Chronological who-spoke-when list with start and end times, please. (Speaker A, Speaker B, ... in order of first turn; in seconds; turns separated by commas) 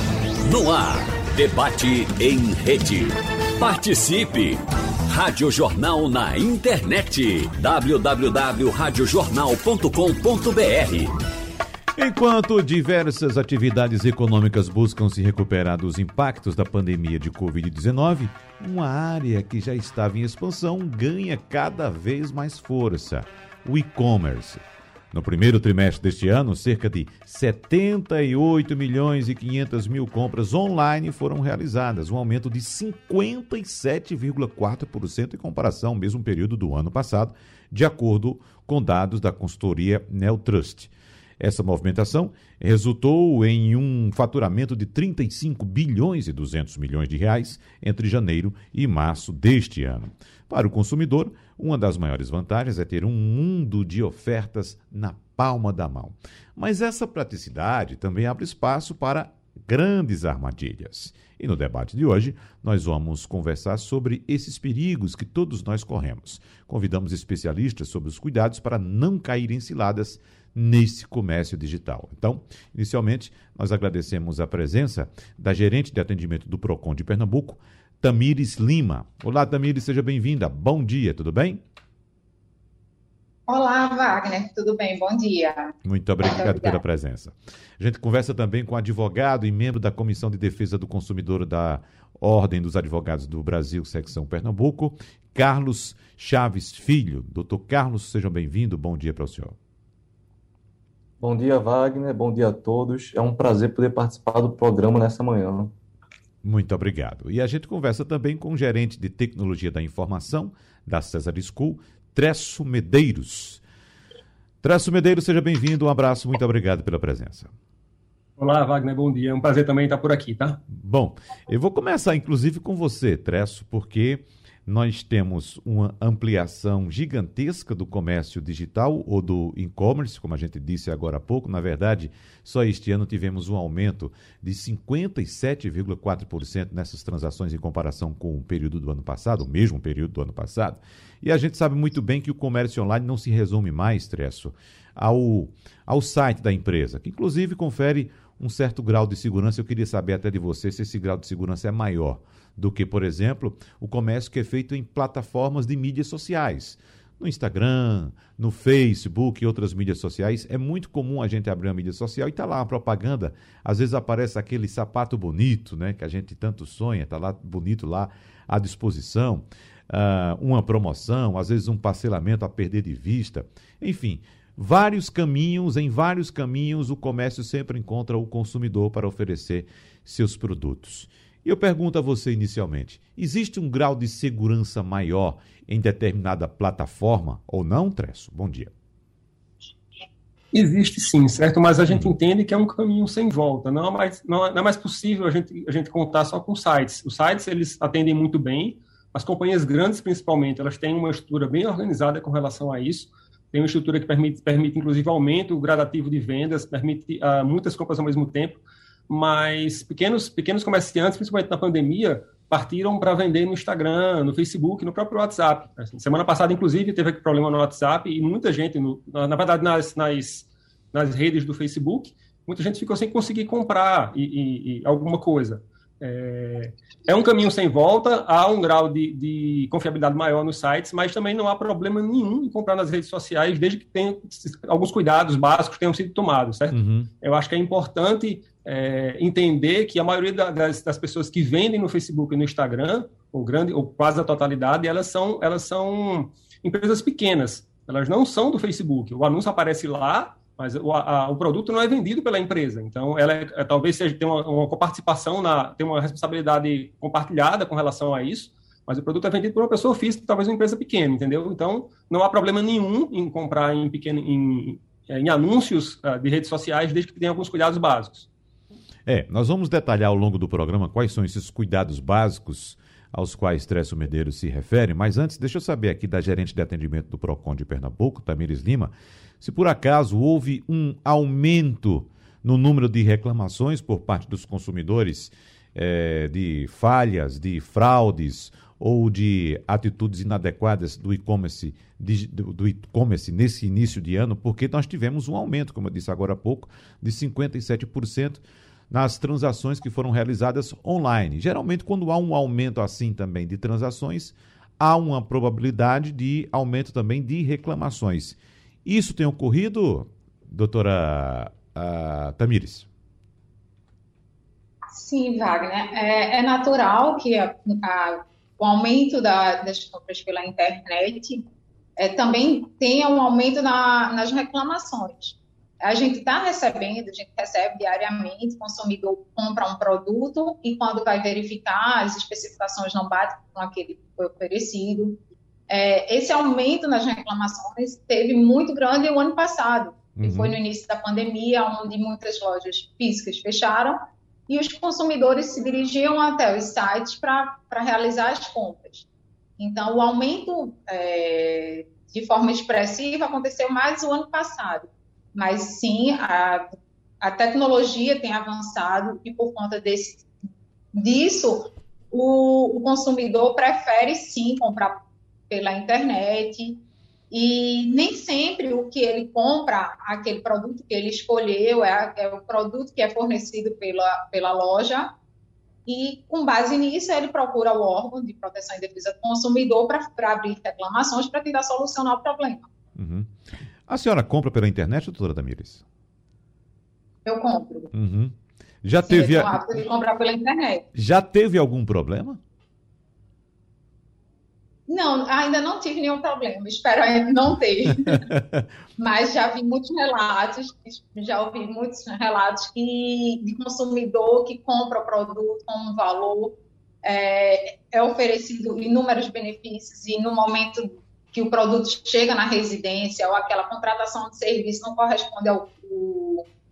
Speaker A: 0.4-11.1, Speaker B: 12.0-81.6, Speaker C: 83.5-86.8, Speaker B: 85.8-99.5, Speaker D: 101.2-105.7, Speaker B: 106.4-113.6, Speaker B: 114.6-117.5, Speaker E: 118.4-120.6, Speaker B: 120.7-188.7, Speaker E: 190.5-268.3, Speaker B: 191.9-192.1, Speaker B: 236.7-237.1, Speaker B: 269.1-312.9, Speaker C: 314.9-321.4, Speaker C: 322.0-349.1, Speaker B: 340.2-340.6, Speaker C: 349.6-356.7, Speaker C: 357.2-360.3, Speaker C: 360.9-375.1, Speaker C: 375.9-382.6, Speaker B: 382.9-383.3, Speaker B: 383.9-385.8, Speaker C: 387.2-387.9, Speaker B: 387.9-389.6, Speaker C: 389.0-390.9, Speaker B: 390.9-392.4, Speaker C: 394.9-398.3, Speaker B: 398.1-398.6, Speaker C: 399.0-416.4